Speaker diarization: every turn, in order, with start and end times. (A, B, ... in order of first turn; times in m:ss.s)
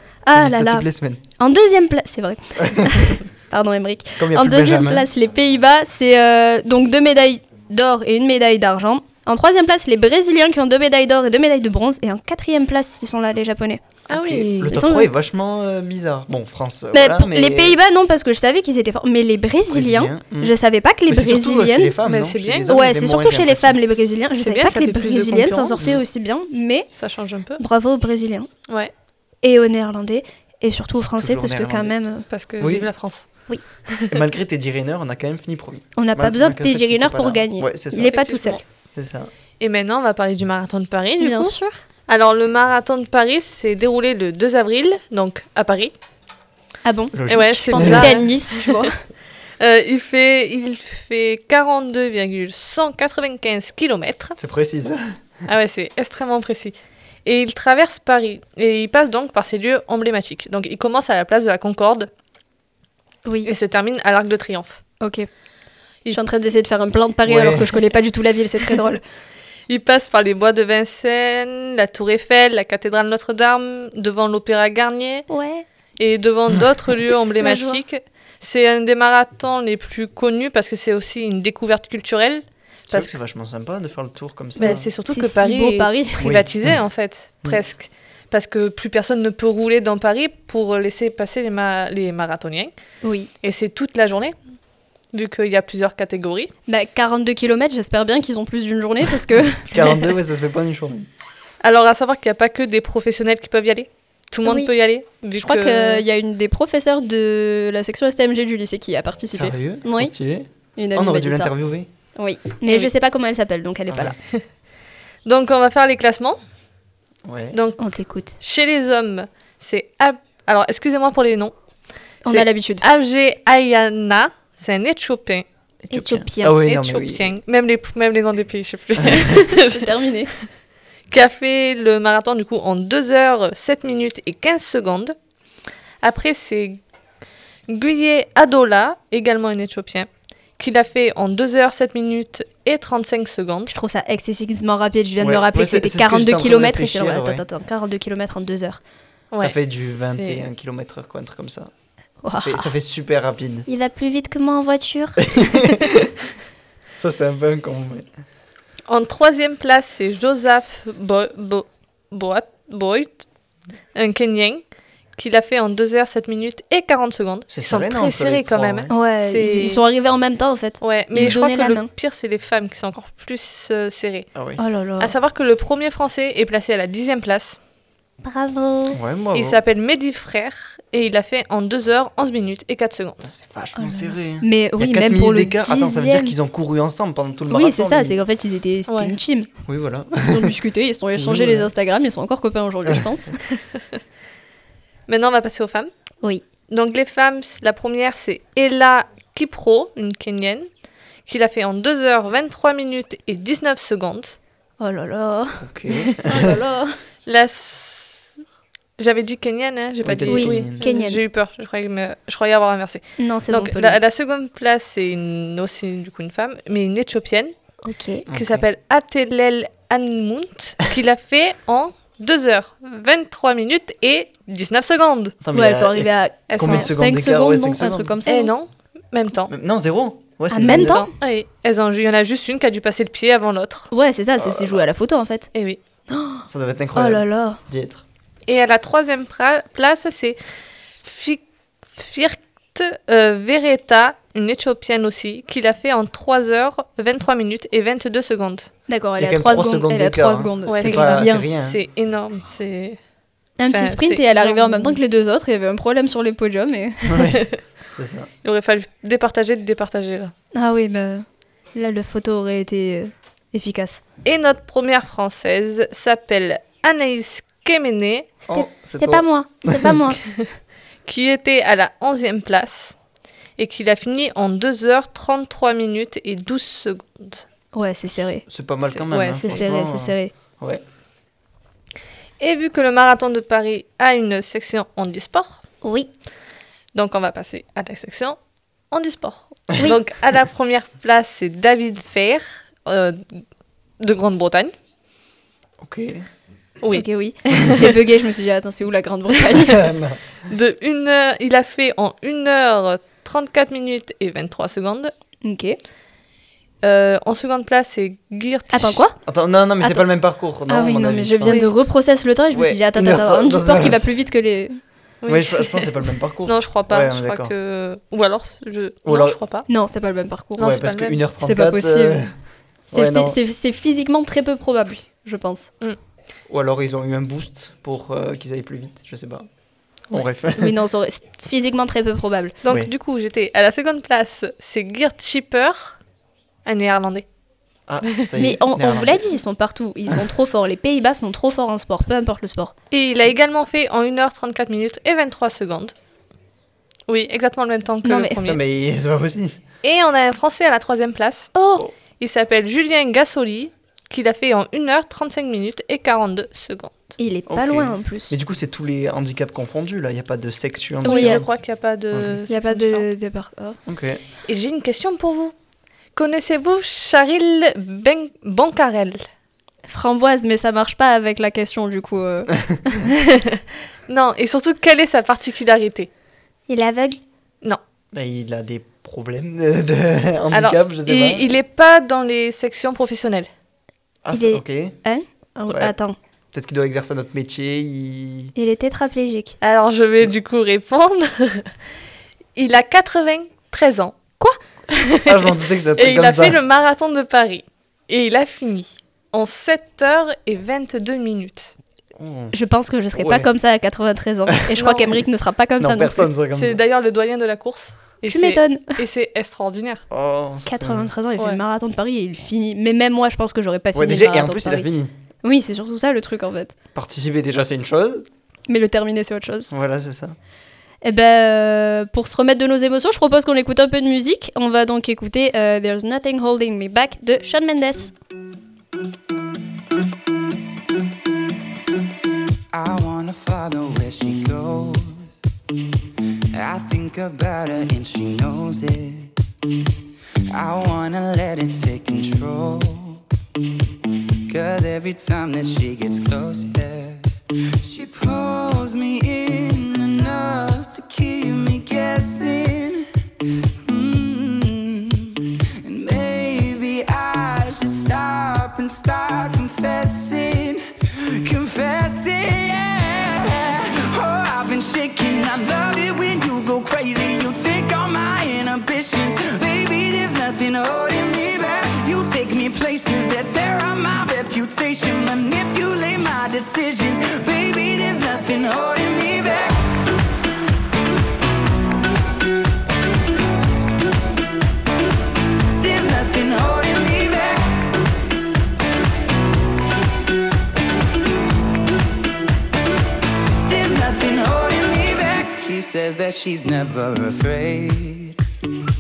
0:00.2-0:00.8 A
0:00.3-0:01.2 B
0:01.4-0:13.8 A
0:02.6-0:03.1 B
0:04.2-0:05.1 B
0:14.1-0:17.8 B
0:14.1-0:14.8 C
0:14.7-0:15.1 A
0:16.9-0:21.9 A
0:19.7-0:20.5 B
0:21.1-0:23.8 B
0:22.0-0:22.8 C
0:22.7-0:26.9 A
0:24.4-0:25.9 C
0:26.9-0:27.6 C
0:27.6-0:28.5 A
0:29.4-0:32.3 A
0:31.2-0:31.9 B
0:32.3-0:34.2 C
0:32.6-0:32.9 B
0:34.0-0:39.3 B
0:36.0-0:38.6 A
0:38.0-0:38.6 C
0:39.6-0:45.9 C
0:41.2-0:41.8 A
0:46.8-0:49.0 A
0:47.1-0:48.2 B
0:47.3-0:48.8 C
0:49.6-0:54.4 C
0:54.4-0:55.1 B
0:55.5-1:02.1 C
1:03.2-1:03.5 A
1:03.4-1:04.8 C
1:05.0-1:05.3 A
1:06.1-1:09.0 A
1:07.2-1:07.7 B
1:09.7-1:15.3 C
1:15.3-1:15.6 A
1:16.0-1:23.1 C
1:17.4-1:17.8 A
1:22.9-1:24.9 B
1:24.6-1:26.2 A
1:24.6-1:32.7 C
1:26.2-1:26.7 B
1:33.0-1:33.3 A
1:33.4-1:34.4 C
1:35.0-1:36.5 C
1:36.7-1:40.0 A
1:39.7-1:41.1 B
1:41.6-1:46.0 C
1:44.4-1:44.7 A
1:45.3-1:51.5 A
1:49.3-1:51.9 B
1:52.1-1:54.3 A
1:53.9-1:54.2 B
1:55.2-1:56.4 C
1:57.2-1:57.6 B
1:57.5-1:57.8 C
1:57.8-1:58.4 A
1:58.4-2:01.6 C
2:02.2-2:02.8 A
2:02.3-2:05.4 C
2:05.9-2:06.6 A
2:05.9-2:07.3 B
2:06.6-2:09.9 C
2:09.6-2:10.3 A
2:11.1-2:15.2 C
2:16.0-2:16.8 C
2:17.7-2:23.7 C
2:23.7-2:28.8 A
2:25.2-2:27.4 B
2:29.3-2:30.4 C
2:29.4-2:31.7 B
2:32.2-2:32.7 A
2:32.3-2:33.7 B
2:33.7-2:35.3 A
2:35.2-2:36.1 B
2:37.0-2:38.1 B
2:38.9-2:43.2 C
2:43.9-2:49.8 C
2:47.5-2:48.9 B
2:48.9-2:51.9 A
2:50.8-2:54.3 C
2:54.3-2:54.6 B
2:54.6-2:55.1 A
2:55.0-2:57.6 C
2:58.2-2:59.0 A
2:58.9-2:59.6 B
2:59.3-3:03.3 C
3:03.2-3:08.2 B
3:03.8-3:06.3 A
3:07.5-3:09.5 A
3:08.9-3:09.2 C
3:09.6-3:10.5 B
3:10.2-3:13.3 A
3:11.2-3:11.7 B
3:15.1-3:15.9 C
3:16.7-3:20.7 C
3:21.2-3:24.4 C
3:24.8-3:26.9 A
3:25.6-3:26.6 B
3:27.2-3:28.3 C
3:29.0-3:37.7 C
3:30.0-3:30.8 B
3:30.3-3:31.2 A
3:33.2-3:34.0 A
3:37.8-3:38.2 A
3:38.3-3:38.6 B
3:38.3-3:45.4 C
3:45.4-3:48.2 B
3:45.5-3:48.5 A
3:46.5-3:46.9 C
3:48.2-3:49.5 C
3:49.5-3:51.0 B
3:50.5-3:51.1 A
3:50.6-3:53.9 C
3:53.9-3:55.5 A
3:54.4-3:54.8 B
3:55.5-3:55.8 C
3:56.1-3:57.6 A
3:56.5-3:58.0 B
3:58.5-4:00.4 C
4:01.0-4:08.7 C
4:08.9-4:11.5 A
4:09.2-4:11.8 B
4:10.6-4:13.0 C
4:13.6-4:15.0 C
4:13.6-4:17.4 A
4:17.1-4:18.3 B
4:18.4-4:20.3 C
4:20.5-4:24.0 A
4:24.2-4:28.3 C
4:28.5-4:30.0 B
4:28.5-4:30.2 A
4:31.0-4:33.0 C
4:33.6-4:37.4 C
4:37.7-4:38.4 A
4:38.4-4:40.8 B
4:38.9-4:39.6 C
4:39.4-4:40.3 A
4:42.4-4:45.6 C
4:45.8-4:46.1 A
4:46.9-4:53.4 C
4:54.0-4:54.7 C
4:55.8-4:56.2 B
4:56.8-4:57.9 C
4:56.9-4:59.8 A
4:59.6-5:00.2 B
5:00.5-5:05.1 C
5:05.4-5:05.8 A
5:06.8-5:09.0 C
5:08.7-5:09.2 A
5:09.2-5:11.6 B
5:09.8-5:10.1 A
5:10.7-5:14.8 A
5:12.5-5:14.1 B
5:15.2-5:15.9 C
5:15.2-5:17.5 B
5:16.4-5:19.7 C
5:19.0-5:19.4 B
5:19.7-5:20.7 A
5:20.6-5:21.2 C
5:20.6-5:23.4 B
5:21.4-5:22.2 A
5:22.9-5:25.7 A
5:26.5-5:29.4 B
5:30.0-5:30.7 B
5:30.6-5:32.6 A
5:32.6-5:36.0 C
5:36.6-5:37.3 C
5:37.9-5:39.4 B
5:38.4-5:42.7 A
5:42.9-5:45.9 C
5:47.1-5:48.6 C
5:48.0-5:48.4 A
5:48.4-5:49.6 B
5:49.8-5:51.5 C
5:51.5-5:51.8 A
5:52.2-5:57.1 C
5:57.2-5:58.3 A
5:57.5-6:01.5 B
6:01.0-6:01.4 A
6:01.0-6:03.1 C
6:02.1-6:02.4 B
6:02.5-6:03.8 A
6:03.8-6:04.2 B
6:04.4-6:05.5 C
6:06.1-6:09.2 C
6:09.9-6:13.0 A
6:14.1-6:16.1 C
6:16.7-6:17.2 A
6:18.1-6:21.6 B
6:20.5-6:23.5 C
6:24.2-6:25.0 B
6:24.3-6:26.2 A
6:25.7-6:25.9 B
6:26.5-6:28.5 B
6:28.5-6:29.6 A
6:29.6-6:31.7 C
6:32.5-6:34.2 C
6:35.1-6:41.7 C
6:35.2-6:36.6 B
6:42.2-6:42.6 B
6:42.5-6:46.3 A
6:43.1-6:43.5 B
6:44.8-6:45.2 C
6:45.8-6:46.8 B
6:46.5-6:50.0 C
6:48.3-6:48.9 A
6:50.1-6:51.1 B
6:50.6-6:54.9 A
6:53.9-6:55.1 B
6:55.4-6:56.7 A
6:56.9-6:58.2 B
6:58.7-6:59.7 A
6:59.7-7:00.3 B
7:01.0-7:08.1 A
7:12.7-7:15.3 D
7:16.5-7:19.3 D
7:20.5-7:23.2 D
7:24.5-7:27.2 D
7:27.8-7:33.0 D
7:33.8-7:40.8 D
7:41.4-7:59.8 D
8:05.7-8:07.8 D
8:13.6-8:18.4 D